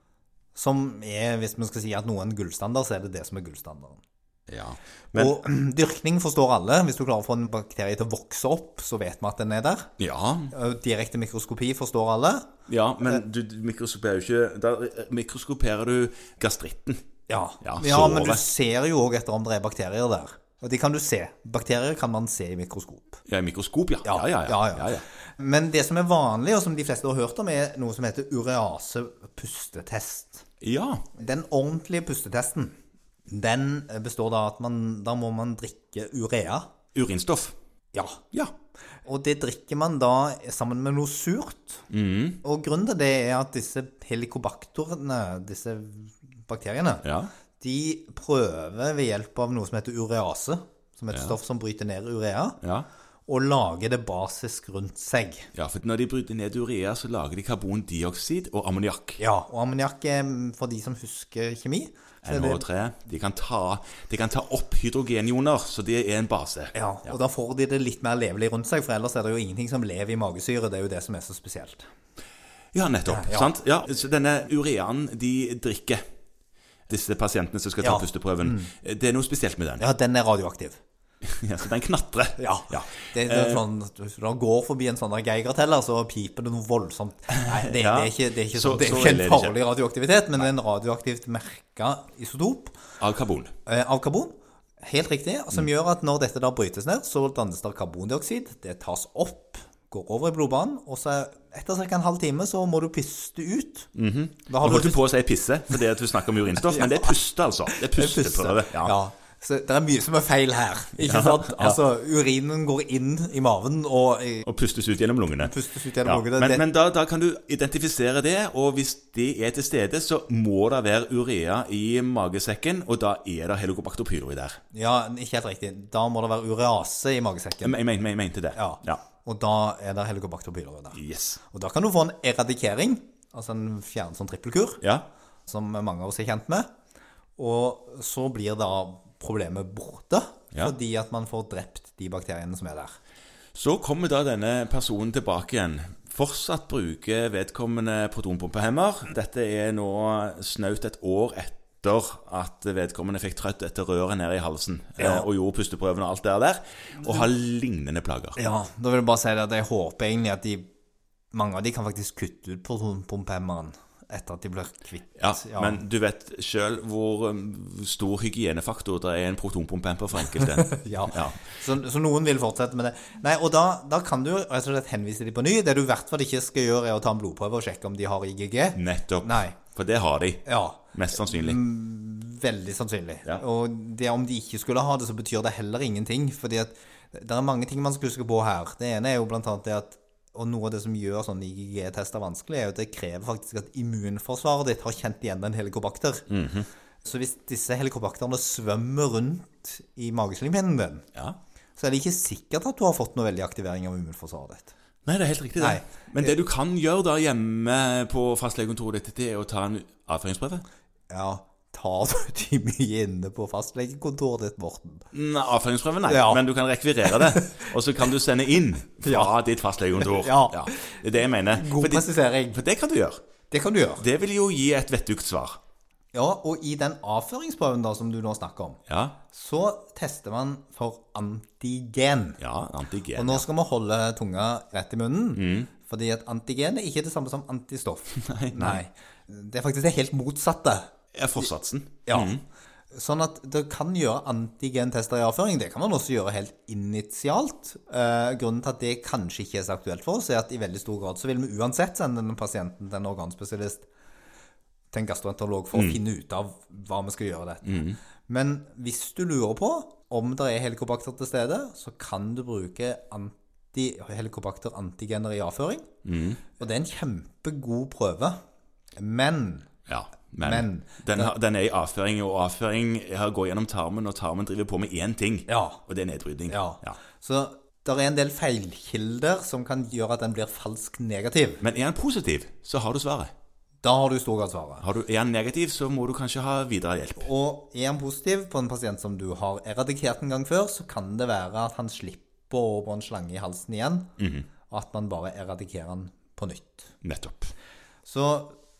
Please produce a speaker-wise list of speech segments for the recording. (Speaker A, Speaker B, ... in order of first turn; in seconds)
Speaker A: 0.5-4.0, 5.1-9.9, 10.5-12.5, 17.3-23.2, 24.0-30.4, 31.2-32.7, 33.3-36.7, 37.9-38.2, 39.0-41.8, 42.4-47.1, 47.6-52.6, 53.3-55.5, 59.2-62.6, 66.7-71.9, 73.1-73.5, 77.8-78.7, 79.8-80.8, 82.4-92.8, 93.7-103.9, 104.5-105.0, 106.7-107.2, 107.8-114.5, 115.4-116.6, 124.7-127.8, 128.6-134.8, 135.5-136.7, 137.4-142.9, 155.0-155.2, 158.4-160.7, 161.3-165.8, 170.6-179.6, 180.4-196.2, 197.0-201.1, 201.8-204.7, 205.6-206.3, 211.1-215.1, 216.1-216.4, 217.1-217.7, 219.0-219.3, 220.0-220.9, 221.5-222.6, 223.5-224.0, 226.1-232.4, 233.1-241.4, 242.1-242.4, 242.9-253.9, 254.9-265.9, 266.6-268.4, 269.0-269.7, 270.4-271.3, 275.5-275.8, 276.5-281.6, 283.8-284.8, 287.2-294.1, 294.7-296.9, 298.0-298.6
Speaker B: 4.5-5.3, 10.0-10.5, 12.7-17.0, 17.6-18.5, 23.2-25.0, 30.6-31.0, 36.9-37.5, 41.9-42.4, 47.0-47.3, 51.1-51.4, 52.6-52.9, 55.5-59.2, 62.2-67.1, 72.7-76.0, 76.9-79.8, 81.2-83.6, 87.3-89.6, 93.0-93.5, 103.9-108.9, 111.0-111.8, 114.4-124.6, 127.6-129.0, 130.9-131.4, 134.8-135.1, 143.5-158.4, 165.2-171.6, 178.7-181.6, 196.3-196.7, 205.0-210.6, 215.1-223.2, 224.0-225.6, 228.9-229.2, 232.4-233.4, 235.3-235.7, 238.1-238.8, 241.1-242.4, 255.7-256.0, 257.6-258.0, 266.0-266.4, 269.9-277.0, 281.6-283.3, 284.8-287.3, 294.2-294.5, 297.0-297.5